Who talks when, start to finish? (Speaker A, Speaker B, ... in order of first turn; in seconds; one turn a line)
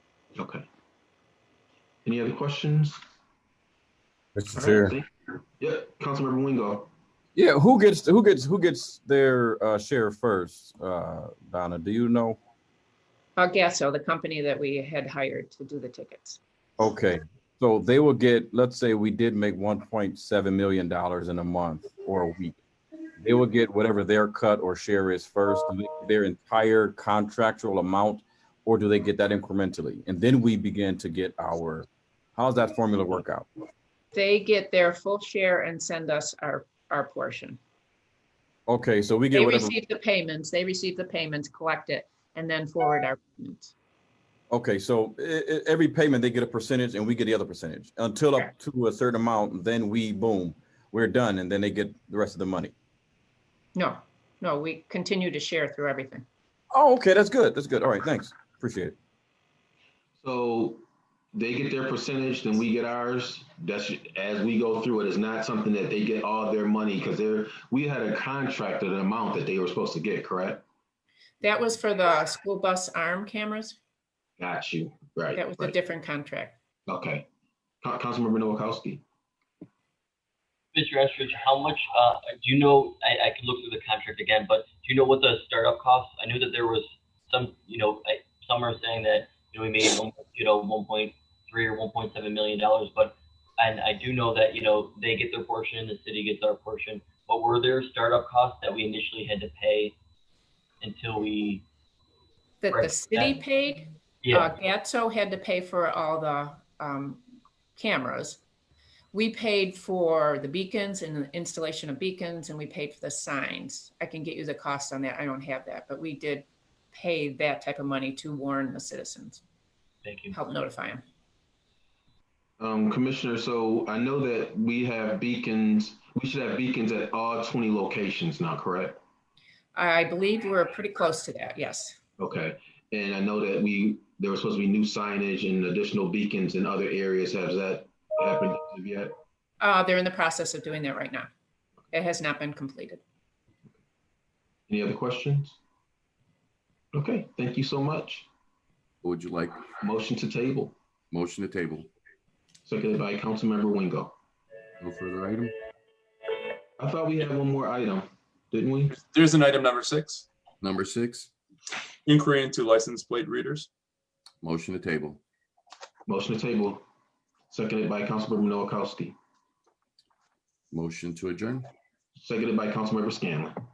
Speaker A: 0.3-0.7
Speaker A: 2.0-3.0
Speaker B: 4.3-5.0
Speaker A: 4.5-5.0
Speaker A: 5.6-6.9
Speaker B: 7.3-12.4
Speaker C: 13.3-16.4
Speaker B: 16.8-22.6
Speaker B: 23.2-33.5
Speaker C: 34.1-37.6
Speaker B: 38.7-39.8
Speaker C: 39.3-43.7
Speaker B: 44.5-52.7
Speaker C: 53.8-56.2
Speaker B: 56.7-58.9
Speaker A: 60.2-70.6
Speaker C: 71.4-73.8
Speaker A: 74.4-75.7
Speaker C: 75.3-76.5
Speaker A: 76.9-77.2
Speaker A: 77.8-79.0
Speaker D: 80.7-100.0
Speaker D: 100.8-101.6
Speaker C: 102.6-107.2
Speaker D: 102.7-103.4
Speaker D: 104.2-104.5
Speaker C: 107.8-108.4
Speaker C: 109.1-119.4
Speaker D: 120.0-120.3
Speaker C: 120.3-121.0
Speaker A: 122.6-129.0
Speaker C: 129.7-132.0
Speaker A: 132.2-139.1
Speaker C: 139.6-141.3
Speaker C: 141.9-143.0
Speaker A: 144.7-145.6
Speaker A: 146.9-148.3
Speaker E: 149.0-149.7
Speaker A: 149.8-150.7
Speaker E: 151.1-151.9
Speaker A: 152.7-154.1
Speaker E: 154.8-155.5
Speaker A: 156.8-158.9
Speaker F: 158.9-160.2
Speaker E: 160.6-161.3
Speaker F: 162.1-163.7
Speaker E: 164.4-165.2
Speaker A: 166.1-166.8
Speaker A: 167.5-169.2
Speaker E: 170.7-171.7
Speaker A: 172.2-173.6